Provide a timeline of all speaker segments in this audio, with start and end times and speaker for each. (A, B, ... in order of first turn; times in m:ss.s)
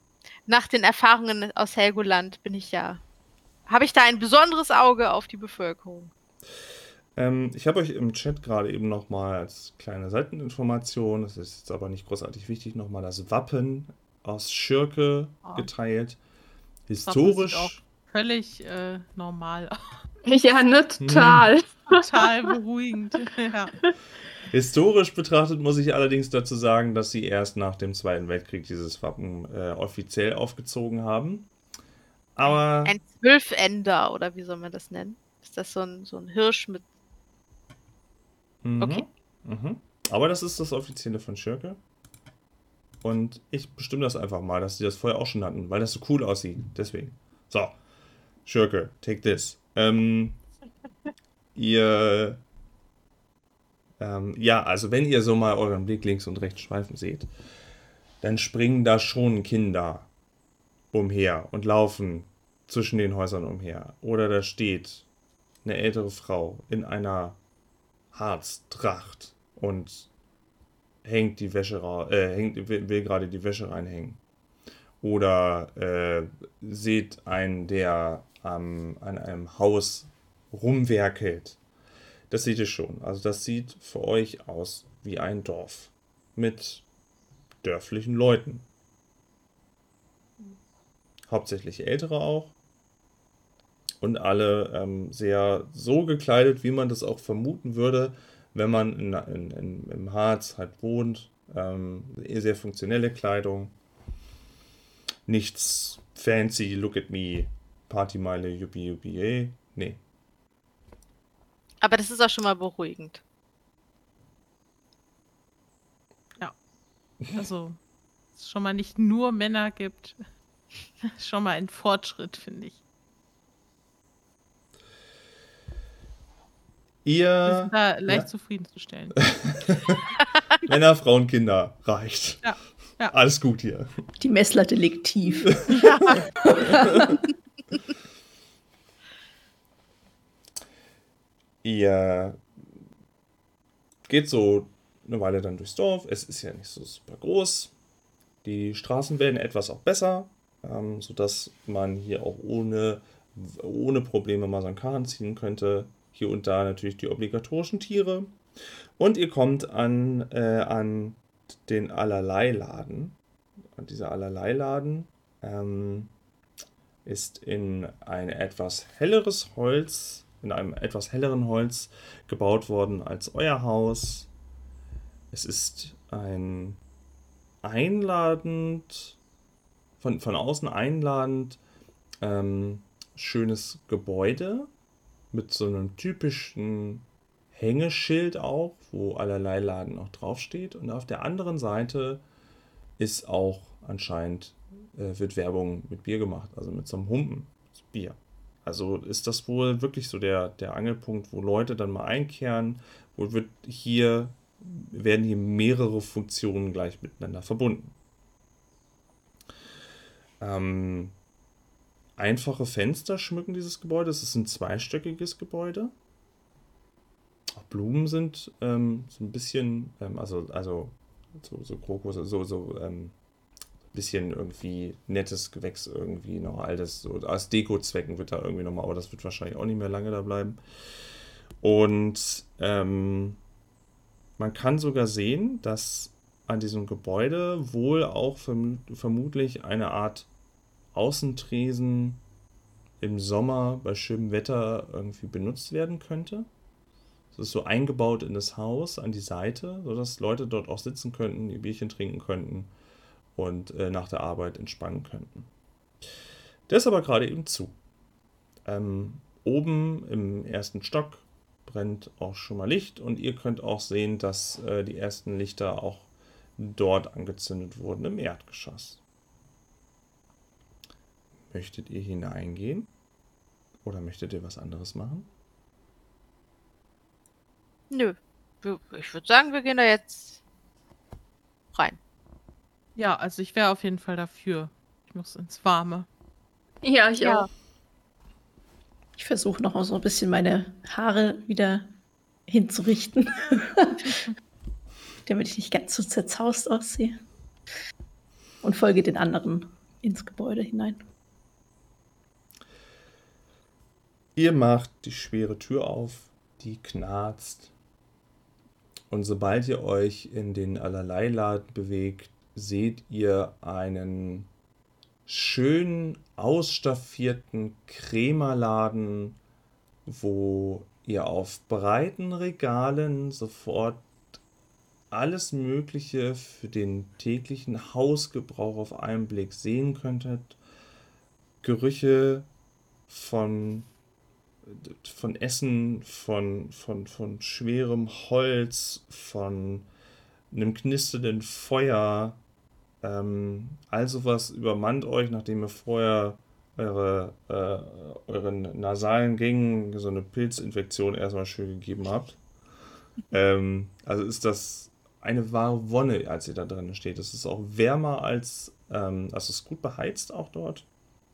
0:00.4-0:03.0 A
0:03.7-0:06.1 A
0:07.1-0:16.2 B
0:16.9-0:17.8 B
0:17.0-0:20.0 C
0:20.2-0:22.1 D
0:21.0-0:21.5 B
0:21.9-0:23.7 C
0:24.5-0:31.5 B
0:32.4-0:32.9 B
0:32.8-0:36.8 A
0:38.6-0:41.8 B
0:38.8-0:39.0 A
0:43.0-0:47.8 B
0:48.4-0:50.4 B
0:51.5-0:52.4 B
0:54.0-0:57.3 B
0:58.2-1:00.1 B
1:00.9-1:05.1 B
1:05.6-1:07.4 B
1:08.1-1:10.1 B
1:11.0-1:14.2 B
1:15.0-1:21.6 B
1:22.3-1:26.8 B
1:27.6-1:28.6 B
1:31.3-1:32.6 B
1:34.0-1:43.7 B
1:45.2-1:50.0 B
1:51.8-1:53.2 A
1:57.3-1:57.8 C
1:58.3-2:00.2 C
2:01.0-2:02.8 C
2:07.0-2:08.3 B
2:07.4-2:09.2 C
2:09.2-2:10.0 B
2:10.6-2:12.5 B
2:12.4-2:13.1 C
2:13.1-2:13.9 B
2:14.2-2:17.2 E
2:15.6-2:15.8 B
2:15.7-2:16.2 C
2:16.7-2:17.1 B
2:21.6-2:22.5 B
2:24.0-2:27.7 B
2:28.4-2:38.4 B
2:39.0-2:43.2 B
2:43.7-2:46.1 B
2:47.0-2:54.3 B
2:55.3-2:56.8 B
2:57.6-2:59.2 B
3:00.0-3:01.6 B
3:02.2-3:04.7 B
3:05.3-3:12.2 B
3:13.0-3:27.9 B
3:30.4-3:31.2 B
3:32.2-3:35.9 B
3:37.5-3:43.1 B
3:43.9-3:50.6 B
3:51.6-3:53.4 B
3:54.4-4:00.3 B
4:00.9-4:02.2 B
4:03.0-4:06.5 B
4:07.3-4:12.7 B
4:13.3-4:15.5 B
4:16.7-4:17.8 B
4:18.6-4:29.0 B
4:31.5-4:32.9 B
4:33.8-4:35.3 B
4:37.9-4:40.4 A
4:43.0-4:46.1 C
4:46.8-4:47.5 D
4:47.2-4:47.5 A
4:49.2-4:51.9 E
4:52.5-4:54.2 E
4:55.2-4:57.2 E
4:58.6-5:01.0 E
5:04.3-5:07.7 B
5:09.1-5:14.5 B
5:15.2-5:19.4 B
5:20.0-5:24.1 B
5:25.1-5:30.6 B
5:31.6-5:32.5 B
5:33.1-5:33.9 B
5:34.6-5:39.9 B
5:40.5-5:42.4 B
5:43.0-5:52.4 B
5:53.3-6:00.9 B